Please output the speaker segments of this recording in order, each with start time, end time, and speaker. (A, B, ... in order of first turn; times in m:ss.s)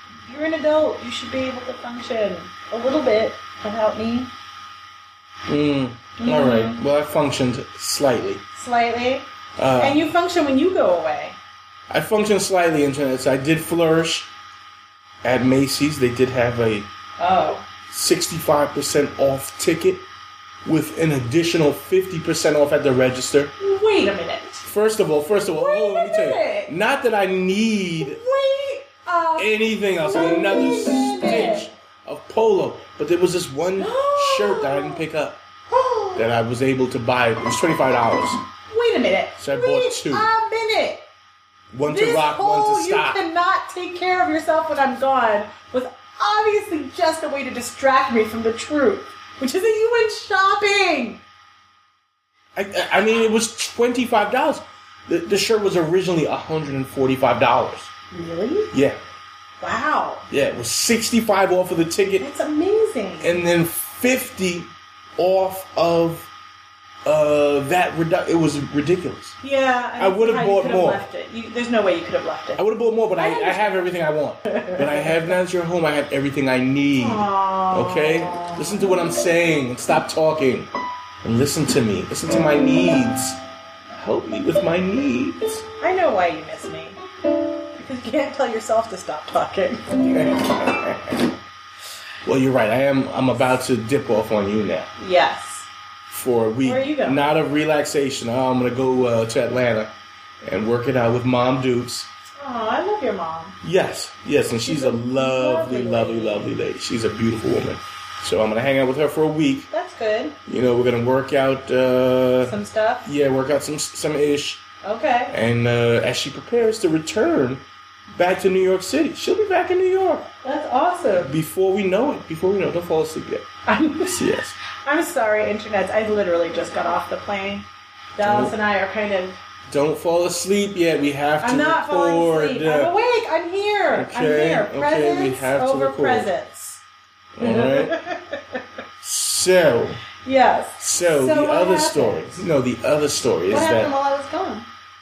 0:00.3-0:04.3 A
0:05.5-0:08.4 B
0:06.2-0:06.8 A
0:08.6-0:09.3 A
0:09.6-0:10.0 B
0:09.8-0:11.4 A
0:11.9-0:14.3 B
0:15.2-0:16.9 B
0:17.2-0:17.6 A
0:17.9-0:20.0 B
0:20.6-0:23.5 B
0:23.6-0:24.6 A
0:24.6-0:28.2 B
0:25.5-0:26.7 A
0:28.0-0:31.7 A
0:29.4-0:35.4 B
0:33.8-0:35.0 A
0:35.7-0:36.2 A
0:36.2-0:38.4 B
0:38.7-0:41.0 A
0:39.4-0:40.3 B
0:41.7-0:43.2 B
0:41.9-0:51.2 A
0:52.6-0:57.9 B
0:58.1-0:58.7 A
0:58.7-0:59.0 B
0:59.6-1:00.2 A
1:00.3-1:02.3 B
1:02.2-1:03.4 A
1:03.2-1:06.3 B
1:07.0-1:09.4 B
1:09.4-1:12.6 A
1:10.0-1:11.0 B
1:12.6-1:20.7 B
1:13.2-1:13.7 A
1:14.5-1:15.1 A
1:17.0-1:19.0 A
1:21.2-1:23.4 B
1:23.9-1:25.6 B
1:25.8-1:27.0 A
1:27.8-1:30.6 A
1:30.1-1:31.0 B
1:32.2-1:34.9 B
1:35.0-1:35.7 A
1:36.1-1:42.1 B
1:36.6-1:37.2 A
1:42.4-1:43.6 A
1:43.6-1:49.7 B
1:44.6-1:46.5 A
1:49.7-1:50.4 A
1:50.5-1:54.6 B
1:52.4-1:53.1 A
1:54.8-1:55.4 A
1:55.3-1:57.6 B
1:58.2-2:00.3 B
2:00.4-2:01.4 A
2:01.2-2:03.5 B
2:03.7-2:07.7 A
2:04.1-2:04.6 B
2:08.2-2:09.4 A
2:08.2-2:08.6 B
2:09.7-2:12.9 B
2:11.4-2:16.8 A
2:13.9-2:16.3 B
2:17.4-2:18.0 B
2:17.4-2:18.6 A
2:19.0-2:20.0 B
2:20.2-2:22.5 A
2:20.8-2:23.9 B
2:23.5-2:24.7 A